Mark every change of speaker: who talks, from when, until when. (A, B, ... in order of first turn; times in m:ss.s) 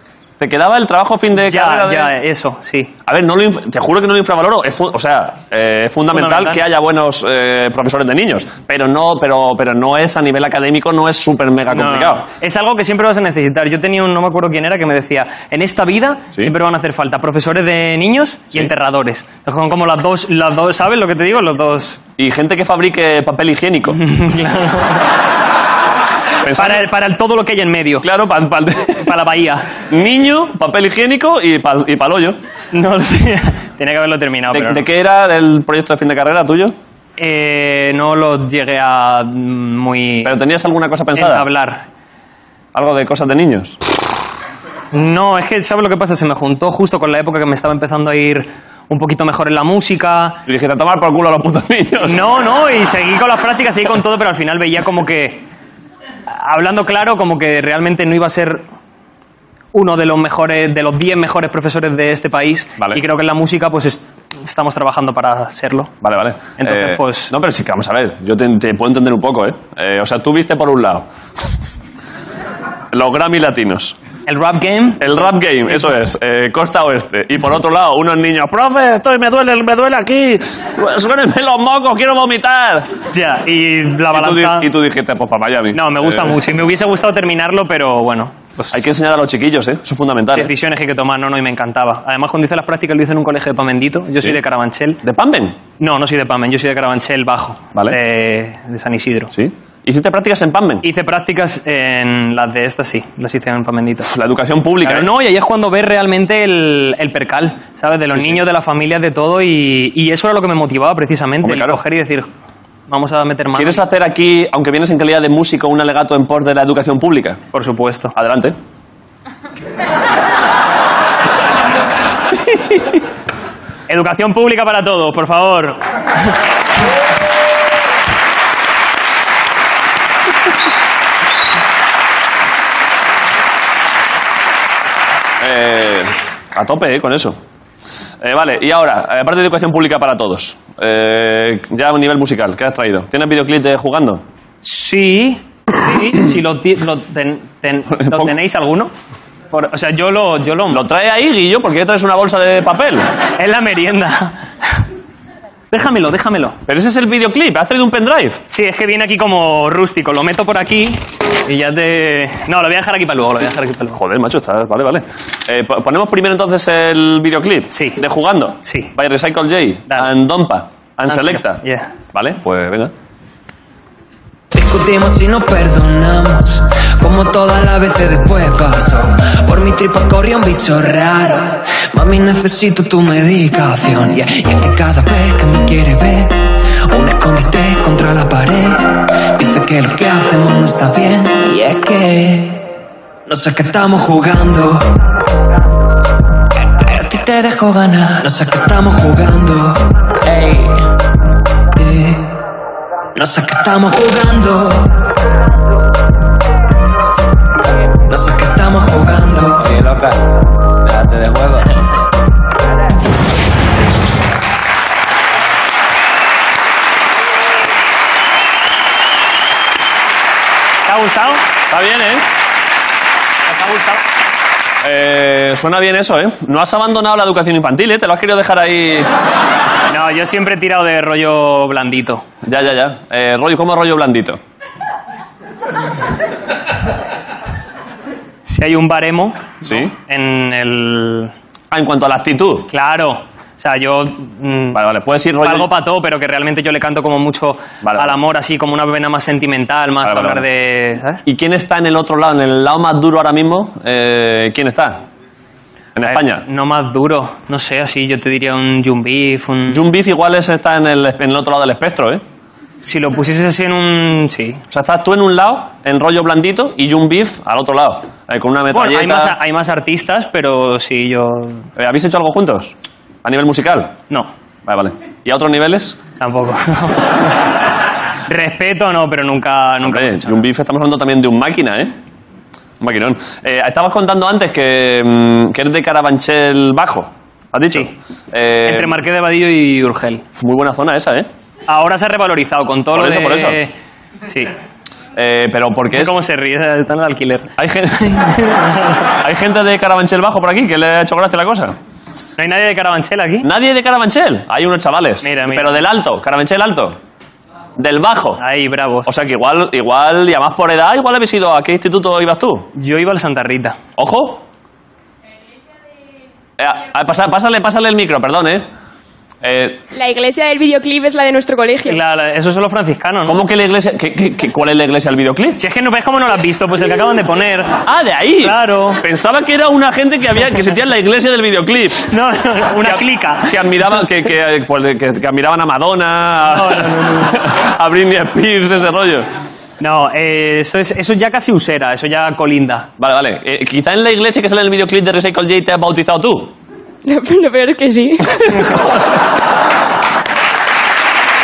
0:00.4-0:02.1 A
0:01.4-0:02.9 B
0:03.1-0:12.2 A
0:06.1-0:06.6 B
0:11.7-0:22.0 B
0:22.2-0:24.0 A
0:23.9-0:25.1 B
0:26.4-0:26.8 A
0:26.5-0:28.0 B
0:28.0-0:29.1 A
0:29.0-0:29.7 B
0:29.9-0:32.4 A
0:32.7-0:34.9 B
0:34.5-0:36.8 A
0:37.2-0:40.3 B
0:40.2-0:41.5 A
0:41.2-0:41.8 B
0:42.7-0:43.8 A
0:44.9-0:50.4 B
0:50.5-0:52.2 A
0:52.0-0:55.4 B
0:56.3-0:58.6 B
0:59.7-1:05.9 B
1:06.0-1:11.0 A
1:06.6-1:07.3 B
1:12.9-1:14.0 A
1:14.3-1:15.0 B
1:15.0-1:22.9 A
1:23.1-1:24.7 B
1:24.1-1:26.4 A
1:25.7-1:28.7 B
1:28.7-1:30.5 A
1:30.3-1:35.0 B
1:35.0-1:35.6 A
1:35.8-1:39.3 B
1:39.3-1:40.8 A
1:40.8-1:44.1 B
1:44.0-1:45.1 A
1:44.8-1:52.3 B
1:48.2-1:48.4 A
1:51.4-1:51.8 A
1:52.9-1:53.8 B
1:53.6-1:57.4 A
1:57.5-1:58.1 B
1:58.1-1:58.6 A
2:03.9-2:05.8 B
2:15.4-2:17.4 A
2:18.2-2:24.2 A
2:24.6-2:28.9 B
2:27.9-2:28.3 A
2:29.5-2:30.8 B
2:30.7-2:33.1 A
2:33.4-2:34.8 B
2:35.7-2:36.6 B
2:36.7-2:38.4 A
2:38.5-2:44.0 B
2:43.9-2:52.9 A
2:47.7-2:48.0 B
2:48.6-2:48.9 B
2:51.1-2:51.9 B
2:54.5-3:12.7 C
3:13.3-3:15.0 C
3:16.8-3:19.9 C
3:20.3-3:20.9 D
3:21.8-3:22.4 C
3:23.2-3:25.0 C
3:28.1-3:29.6 C
3:29.6-3:31.7 D
3:40.9-3:41.4 B
3:41.7-3:42.2 A
3:43.5-3:44.0 B
3:44.8-3:49.1 A
3:49.9-3:52.2 B
3:52.4-3:54.4 A
3:58.5-4:01.3 B
3:59.6-3:59.9 A
4:01.7-4:02.7 A
4:02.7-4:04.8 B
4:04.7-4:05.7 A
4:05.4-4:11.2 B
4:07.8-4:08.2 A
4:10.0-4:10.4 A
4:11.2-4:15.0 A
4:16.0-4:16.4 A
4:16.1-4:19.8 B
4:19.7-4:22.2 A
4:22.8-4:24.6 B
4:24.7-4:29.4 A
4:28.7-4:31.7 B
4:31.8-4:34.0 A
4:34.7-4:36.0 A
4:36.2-4:37.4 B
4:38.3-4:40.4 B
4:39.8-4:41.9 A
4:42.8-4:49.0 A
4:48.7-4:50.2 B
4:50.4-4:51.3 A
4:51.7-4:53.7 B
4:53.0-4:53.6 A
4:54.3-4:54.5 B
4:55.2-4:56.2 A
4:55.9-4:57.5 B
4:57.6-4:58.3 A
4:58.1-4:59.1 B
4:59.2-5:01.8 A
5:02.4-5:03.5 B
5:03.4-5:07.0 A
5:05.2-5:05.8 B
5:07.8-5:08.4 A
5:08.4-5:09.1 B
5:09.1-5:12.7 A
5:12.8-5:13.8 B
5:14.0-5:14.4 A
5:16.6-5:18.6 A
5:19.4-5:19.8 A
5:19.9-5:22.0 E
5:21.8-5:23.4 B
5:23.3-5:25.6 A
5:25.6-5:27.8 B
5:27.8-5:32.1 A
5:28.4-5:29.0 B
5:32.1-5:34.0 B
5:32.8-5:39.3 A
5:36.5-5:37.4 B
5:39.8-5:42.9 B
5:43.0-5:46.5 A
5:47.0-5:48.7 E